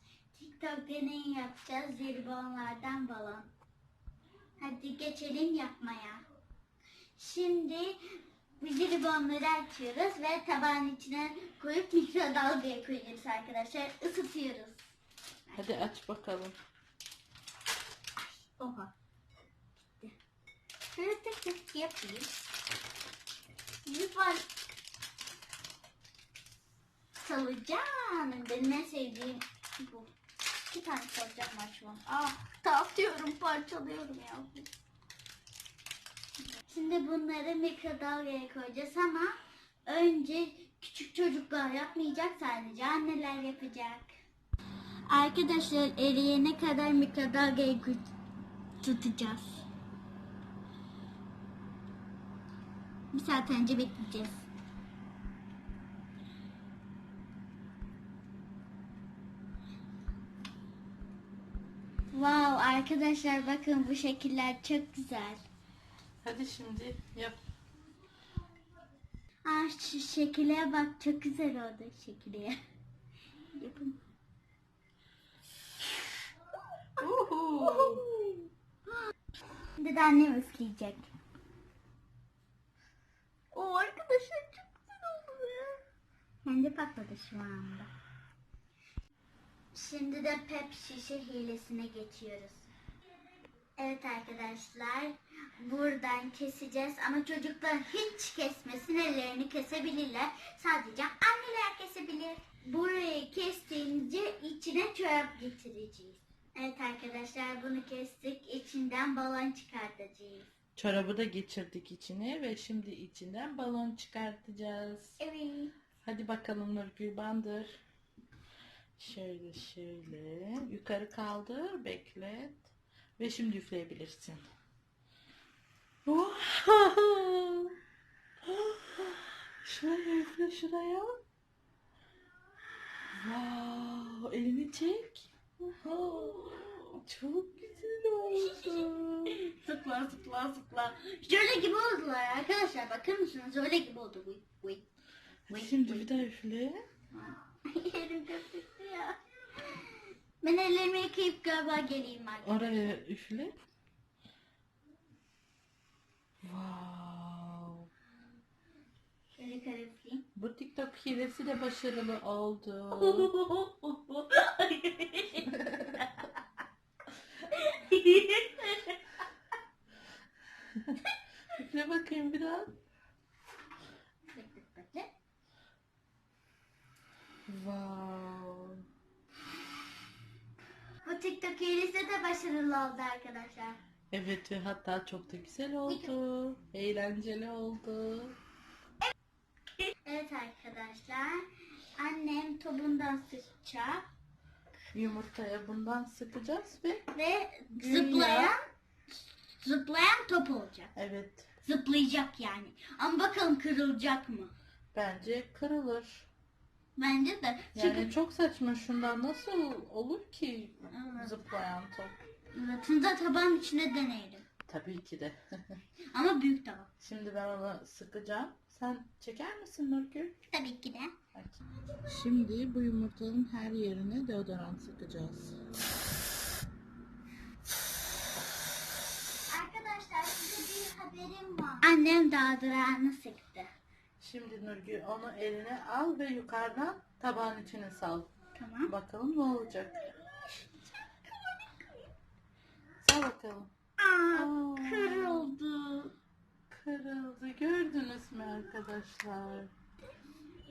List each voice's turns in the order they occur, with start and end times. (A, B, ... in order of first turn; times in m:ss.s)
0:00.3-0:03.5 A
0:04.6-0:06.2 A
0:07.2-0:08.0 A
0:08.6-0:14.9 A
0:15.5-0:15.9 A
0:15.6-0:16.6 B
0:18.6-0:18.9 A
0:20.9-0:22.3 A
0:23.8-0:24.5 A
0:27.2-0:30.1 A
0:30.7-0:34.7 A
0:36.6-0:39.3 A
0:39.8-0:44.1 A
0:45.1-0:48.0 A
0:48.8-0:49.6 A
0:53.1-0:54.4 A
1:02.1-1:05.4 A
1:06.2-1:07.4 B
1:09.4-1:12.6 A
1:13.5-1:14.0 A
1:17.0-1:18.0 B
1:17.0-1:18.4 A
1:19.8-1:21.1 A
1:23.5-1:25.8 A
1:26.4-1:27.9 A
1:29.7-1:32.7 A
1:33.8-1:50.5 A
1:50.8-1:55.2 B
1:55.2-1:55.7 A
1:56.0-1:57.8 B
1:59.0-2:04.5 B
2:06.0-2:07.8 B
2:08.4-2:11.2 B
2:13.1-2:15.3 B
2:15.7-2:17.0 A
2:15.8-2:16.5 B
2:17.0-2:19.4 B
2:19.3-2:24.9 A
2:25.5-2:26.2 A
2:25.5-2:26.8 B
2:27.1-2:33.0 A
2:32.4-2:33.5 B
2:36.4-2:37.9 B
2:39.4-2:40.2 A
2:40.4-2:43.3 B
2:43.0-2:46.3 A
2:45.3-2:46.0 B
2:47.5-2:49.0 A
2:50.7-2:52.8 B
2:54.3-2:55.1 A
2:57.5-2:58.8 B
3:01.0-3:03.8 A
3:04.1-3:08.3 B
3:05.9-3:06.1 A
3:10.0-3:11.4 A
3:12.0-3:14.0 A
3:14.9-3:17.0 B
3:17.1-3:18.6 A
3:17.7-3:18.5 B
3:19.6-3:20.9 A
3:20.9-3:21.5 B
3:21.6-3:24.5 A
3:24.9-3:26.3 B
3:27.0-3:28.1 A
3:27.7-3:32.2 B
3:30.9-3:31.3 A
3:32.5-3:34.4 A
3:34.7-3:35.8 B
3:36.1-3:36.9 A
3:37.0-3:40.3 B
3:40.5-3:41.1 A
3:41.3-3:45.6 B
3:49.5-3:53.7 A
3:54.2-3:58.3 B
3:58.5-3:58.9 A
3:58.9-4:00.1 B
4:01.3-4:01.7 A
4:03.0-4:03.7 B
4:04.0-4:06.1 A
4:04.3-4:05.5 B
4:06.7-4:09.7 B